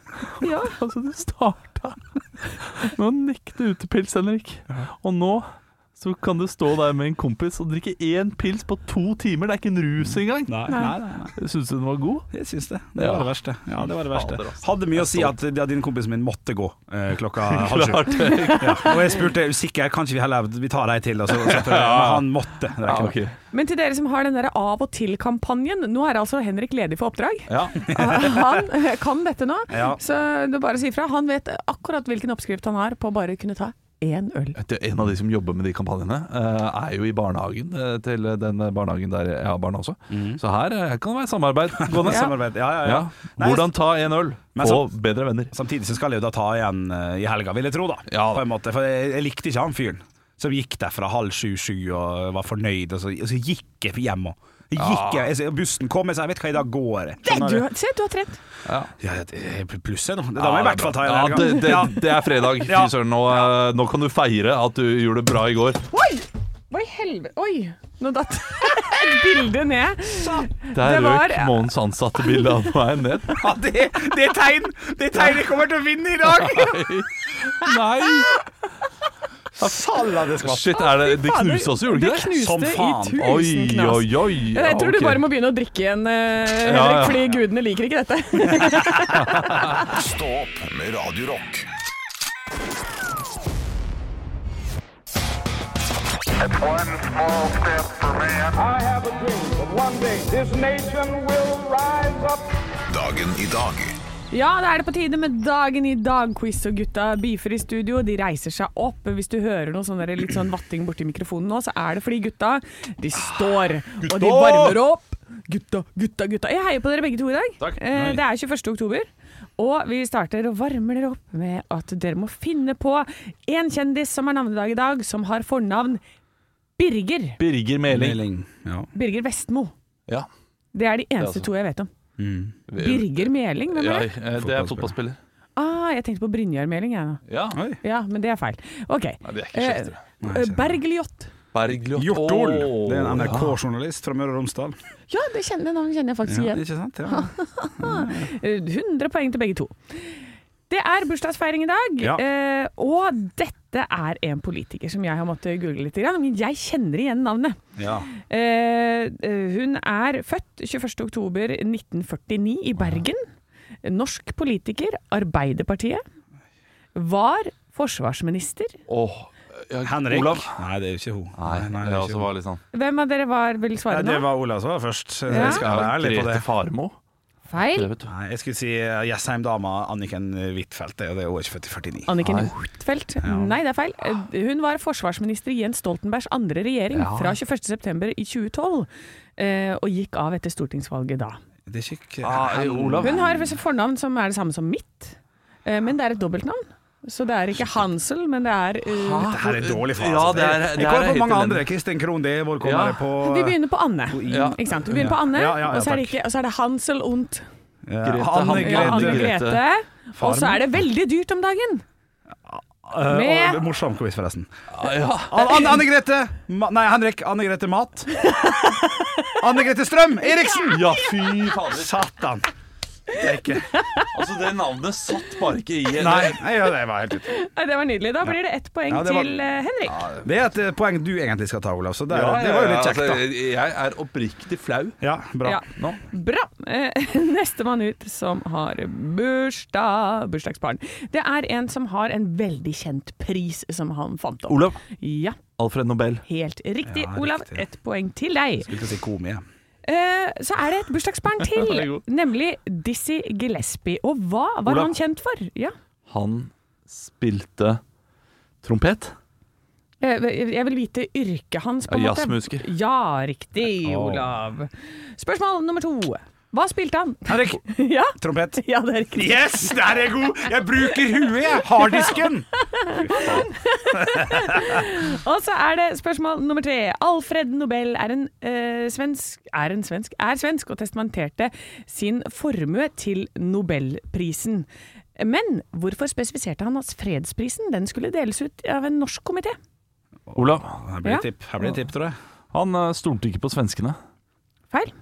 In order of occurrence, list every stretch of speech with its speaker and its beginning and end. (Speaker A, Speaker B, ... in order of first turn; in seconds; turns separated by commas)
Speaker A: 0.2-10.8, Speaker B: 0.4-0.8, Speaker C: 10.5-11.4, Speaker A: 11.4-12.3, Speaker C: 12.3-23.2, Speaker A: 13.0-15.3, Speaker A: 17.5-19.1, Speaker B: 18.3-18.6, Speaker A: 21.3-22.3, Speaker A: 22.8-23.3, Speaker B: 23.5-34.6, Speaker A: 27.5-28.3, Speaker C: 29.7-30.0, Speaker A: 34.6-45.5, Speaker C: 40.1-40.4, Speaker C: 41.8-43.7, Speaker B: 42.1-42.3, Speaker C: 44.5-44.9, Speaker C: 45.5-57.6, Speaker A: 48.1-48.4, Speaker A: 54.8-55.3, Speaker B: 57.2-58.4, Speaker A: 58.6-58.9, Speaker C: 59.0-63.5, Speaker A: 60.4-65.8, Speaker B: 65.9-71.5, Speaker C: 70.1-70.4, Speaker A: 70.7-73.4, Speaker C: 73.4-76.8, Speaker A: 76.2-78.3, Speaker C: 79.6-80.8, Speaker A: 80.4-82.3, Speaker B: 80.8-89.7, Speaker C: 82.3-83.2, Speaker A: 83.2-85.3, Speaker A: 86.6-87.2, Speaker A: 89.1-89.8, Speaker D: 89.7-91.7, Speaker E: 96.4-102.5, Speaker D: 102.9-104.0, Speaker B: 104.3-119.1, Speaker A: 114.0-114.8, Speaker C: 117.9-118.2, Speaker B: 119.6-126.0, Speaker B: 126.8-127.4, Speaker A: 127.4-128.2, Speaker C: 127.9-128.9, Speaker B: 128.9-129.7, Speaker B: 130.7-131.9, Speaker A: 131.2-131.5, Speaker C: 132.2-132.6, Speaker A: 132.7-135.2, Speaker B: 132.8-134.1, Speaker C: 134.4-134.9, Speaker B: 135.6-137.2, Speaker A: 137.3-137.6, Speaker C: 137.5-137.8, Speaker B: 137.8-141.3, Speaker A: 139.2-140.0, Speaker C: 140.2-140.8, Speaker A: 141.5-143.6, Speaker C: 141.9-144.8, Speaker B: 145.1-157.6, Speaker C: 146.3-148.3, Speaker C: 157.8-158.1, Speaker B: 158.1-163.2, Speaker B: 163.8-166.0, Speaker B: 166.9-168.8, Speaker A: 168.9-170.5, Speaker C: 169.8-172.3, Speaker A: 171.4-172.6, Speaker B: 172.7-174.3, Speaker C: 173.9-176.4, Speaker B: 175.3-175.6, Speaker A: 175.3-176.9, Speaker B: 177.5-177.9, Speaker A: 177.7-178.1, Speaker C: 178.1-182.1, Speaker B: 182.1-191.4, Speaker A: 182.2-182.5, Speaker C: 183.2-183.6, Speaker A: 186.9-187.3, Speaker C: 191.7-193.2, Speaker A: 192.2-193.5, Speaker B: 193.0-199.3, Speaker A: 198.9-201.7, Speaker C: 199.2-203.6, Speaker A: 202.6-203.0, Speaker B: 203.2-207.4, Speaker C: 204.1-206.1, Speaker A: 204.3-205.1, Speaker C: 207.9-209.3, Speaker A: 208.0-209.6, Speaker B: 208.6-211.8, Speaker C: 210.2-210.6, Speaker C: 212.5-214.5, Speaker B: 213.1-213.6, Speaker A: 214.7-215.7, Speaker C: 215.3-218.2, Speaker B: 218.2-219.3, Speaker C: 219.4-220.9, Speaker A: 220.7-221.9, Speaker C: 221.7-222.5, Speaker C: 223.1-223.7, Speaker B: 223.8-224.1, Speaker A: 224.1-226.4, Speaker C: 226.0-227.3, Speaker B: 227.3-230.1, Speaker C: 228.9-229.3, Speaker A: 229.9-230.2, Speaker C: 230.2-233.2, Speaker A: 232.1-235.0, Speaker C: 235.0-235.6, Speaker B: 235.4-245.4, Speaker A: 244.5-244.8, Speaker A: 245.6-246.2, Speaker B: 246.2-248.7, Speaker C: 246.8-247.6, Speaker C: 248.6-249.4, Speaker B: 249.8-255.7, Speaker A: 251.4-252.0, Speaker A: 254.7-254.9, Speaker A: 256.1-257.8, Speaker A: 258.6-259.1, Speaker B: 260.0-270.0, Speaker A: 261.9-262.6, Speaker C: 267.3-268.6, Speaker C: 269.1-273.5, Speaker B: 271.8-289.6, Speaker C: 274.2-274.6, Speaker C: 290.3-292.1, Speaker A: 290.3-290.8, Speaker A: 292.5-294.0